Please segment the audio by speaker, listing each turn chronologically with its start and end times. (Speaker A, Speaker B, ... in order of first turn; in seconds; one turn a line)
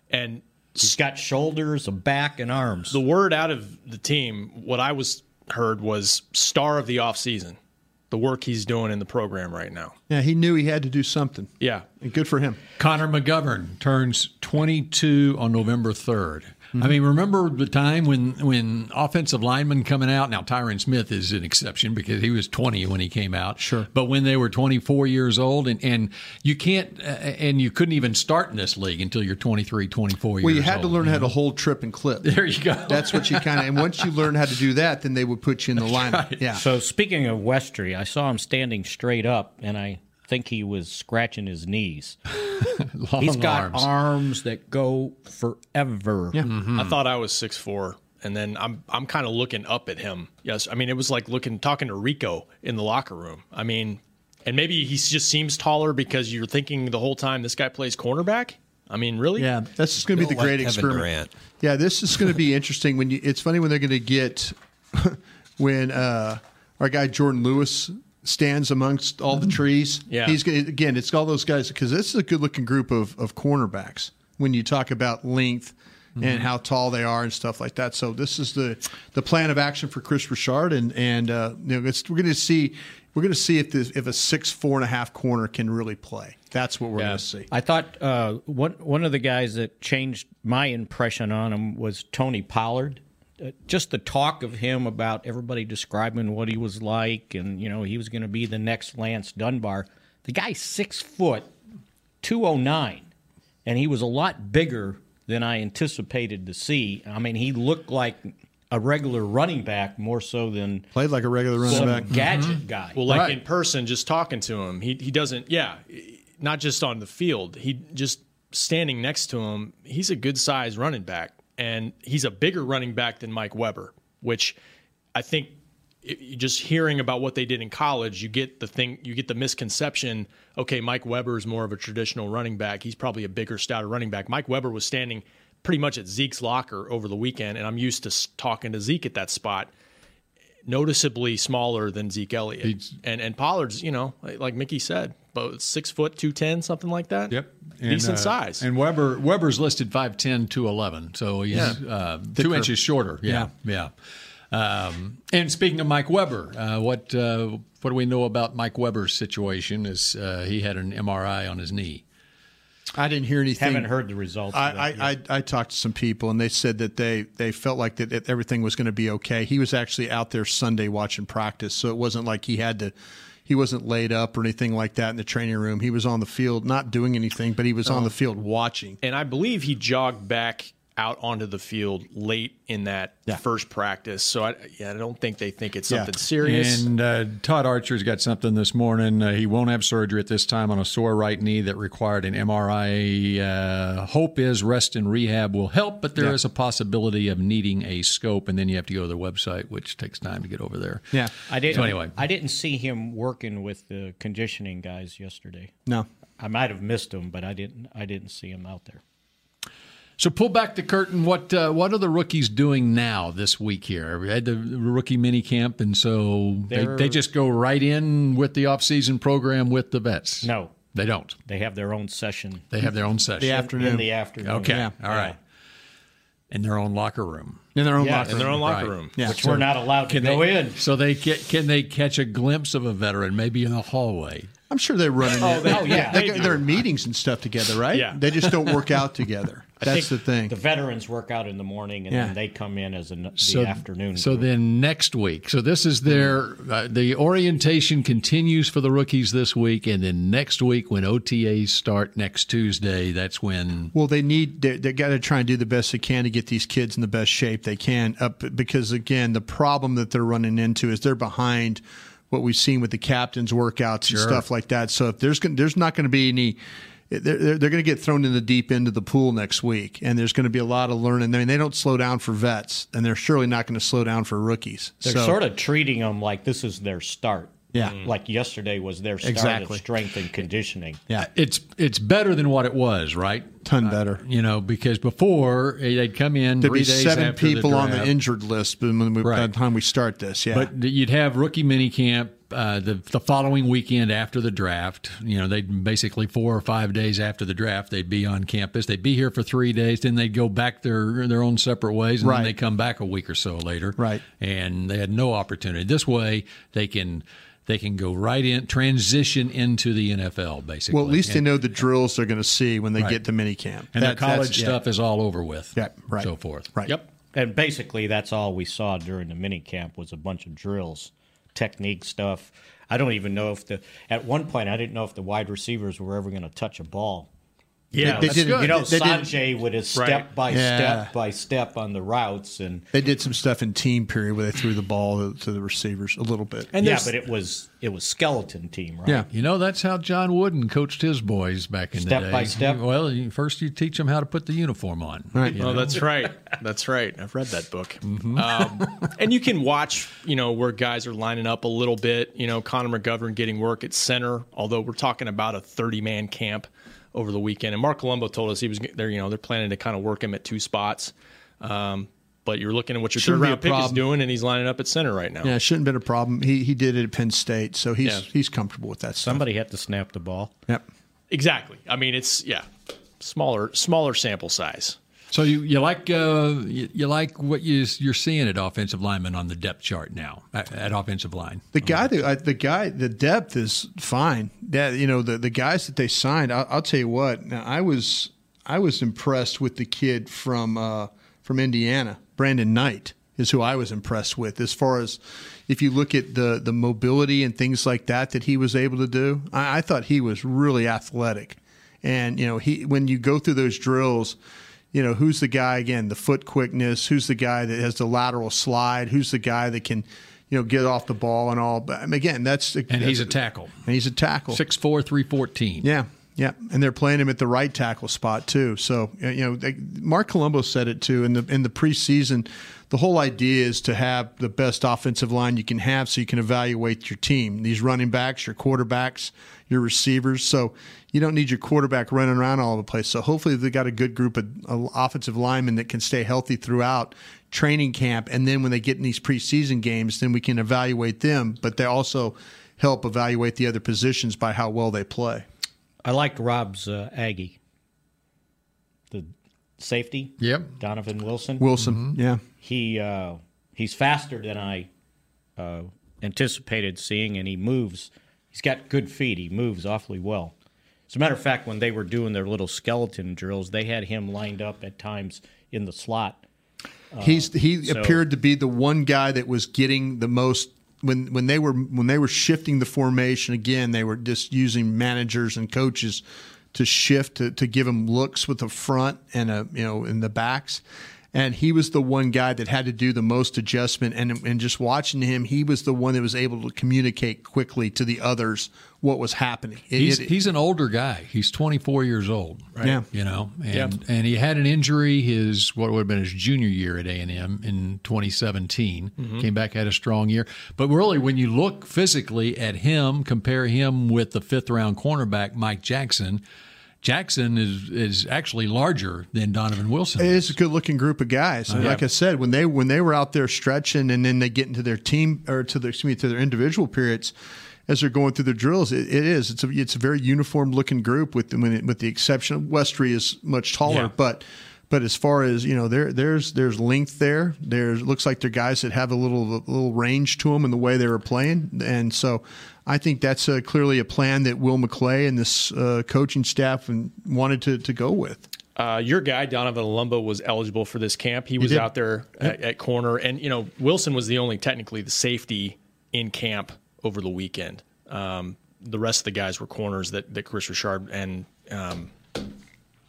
Speaker A: 0.1-0.9
Speaker B: 0.8-3.0
Speaker A: 2.9-7.6
Speaker A: 8.1-9.9
Speaker C: 10.1-12.6
Speaker D: 12.8-31.3
Speaker C: 23.6-23.9
Speaker C: 30.4-36.6
Speaker D: 32.2-34.0
Speaker D: 35.8-36.5
Speaker B: 36.5-42.2
Speaker D: 42.4-43.9
Speaker B: 43.2-46.4
Speaker D: 46.5-47.0
Speaker A: 46.7-59.5
Speaker C: 59.4-87.5
Speaker A: 60.2-61.3
Speaker A: 70.1-70.4
Speaker D: 76.2-76.4
Speaker B: 87.5-101.5
Speaker B: 102.2-103.1
Speaker B: 103.7-110.9
Speaker C: 110.9-112.1
Speaker B: 111.6-113.0
Speaker D: 112.1-113.4
Speaker A: 112.9-124.5
Speaker A: 125.1-139.7
Speaker A: 140.7-147.3
Speaker D: 142.6-142.9
Speaker D: 147.3-153.9
Speaker A: 147.8-148.6
Speaker C: 151.5-151.8
Speaker A: 151.5-151.8
Speaker C: 152.3-152.7
Speaker C: 153.2-153.5
Speaker D: 154.5-162.0
Speaker C: 162.9-163.9
Speaker B: 163.6-165.1
Speaker C: 164.5-172.9
Speaker C: 173.4-179.0
Speaker A: 179.0-186.9
Speaker D: 186.4-202.2
Speaker B: 201.5-205.7
Speaker B: 206.4-209.0
Speaker D: 210.2-221.4
Speaker B: 216.7-217.2
Speaker B: 220.4-220.8
Speaker B: 221.4-222.7
Speaker D: 222.7-223.6
Speaker C: 223.4-224.1
Speaker B: 223.4-225.4
Speaker D: 224.4-225.4
Speaker C: 224.6-224.9
Speaker D: 226.5-227.6
Speaker C: 227.7-229.4
Speaker B: 228.0-228.5
Speaker A: 228.2-229.2
Speaker D: 228.5-234.5
Speaker B: 229.2-230.8
Speaker C: 234.7-240.5
Speaker B: 235.4-236.6
Speaker A: 235.4-236.6
Speaker A: 237.9-238.8
Speaker B: 239.8-244.5
Speaker D: 243.4-253.9
Speaker C: 253.9-266.6
Speaker D: 264.1-264.4
Speaker C: 267.1-275.4
Speaker B: 275.0-281.0
Speaker C: 277.7-278.0
Speaker C: 279.2-279.8
Speaker D: 281.2-288.1
Speaker C: 283.6-284.2
Speaker C: 286.6-290.7
Speaker D: 289.2-289.5
Speaker D: 290.5-311.5
Speaker C: 302.2-302.5
Speaker C: 304.0-304.2
Speaker C: 310.9-314.8
Speaker D: 313.9-316.7
Speaker C: 315.7-316.9
Speaker B: 317.3-327.3
Speaker A: 327.9-328.2
Speaker C: 328.0-329.4
Speaker B: 328.0-332.9
Speaker D: 328.0-328.8
Speaker A: 329.9-330.2
Speaker C: 330.5-331.1
Speaker C: 332.9-336.7
Speaker A: 336.7-337.1
Speaker B: 336.8-339.2
Speaker D: 339.3-346.0
Speaker B: 342.0-342.8
Speaker C: 345.3-346.0
Speaker A: 345.6-365.5
Speaker D: 348.1-349.1
Speaker C: 363.1-364.0
Speaker C: 365.4-369.4
Speaker B: 369.2-370.5
Speaker A: 371.3-372.7
Speaker A: 373.2-375.0
Speaker D: 375.3-381.9
Speaker C: 381.7-404.4
Speaker C: 404.9-414.6
Speaker D: 412.9-413.8
Speaker D: 414.5-415.9
Speaker C: 415.8-445.4
Speaker B: 446.0-447.6
Speaker B: 449.1-451.7
Speaker D: 450.4-450.7
Speaker C: 451.6-452.4
Speaker D: 451.8-452.1
Speaker B: 452.6-454.9
Speaker B: 455.6-460.5
Speaker B: 461.1-466.4
Speaker B: 467.1-468.2
Speaker C: 467.2-490.3
Speaker D: 489.9-506.4
Speaker C: 492.8-493.0
Speaker A: 499.2-499.5
Speaker D: 507.0-510.5
Speaker C: 510.2-517.3
Speaker D: 511.7-512.0
Speaker C: 517.9-538.5
Speaker A: 538.8-552.1
Speaker C: 541.6-541.9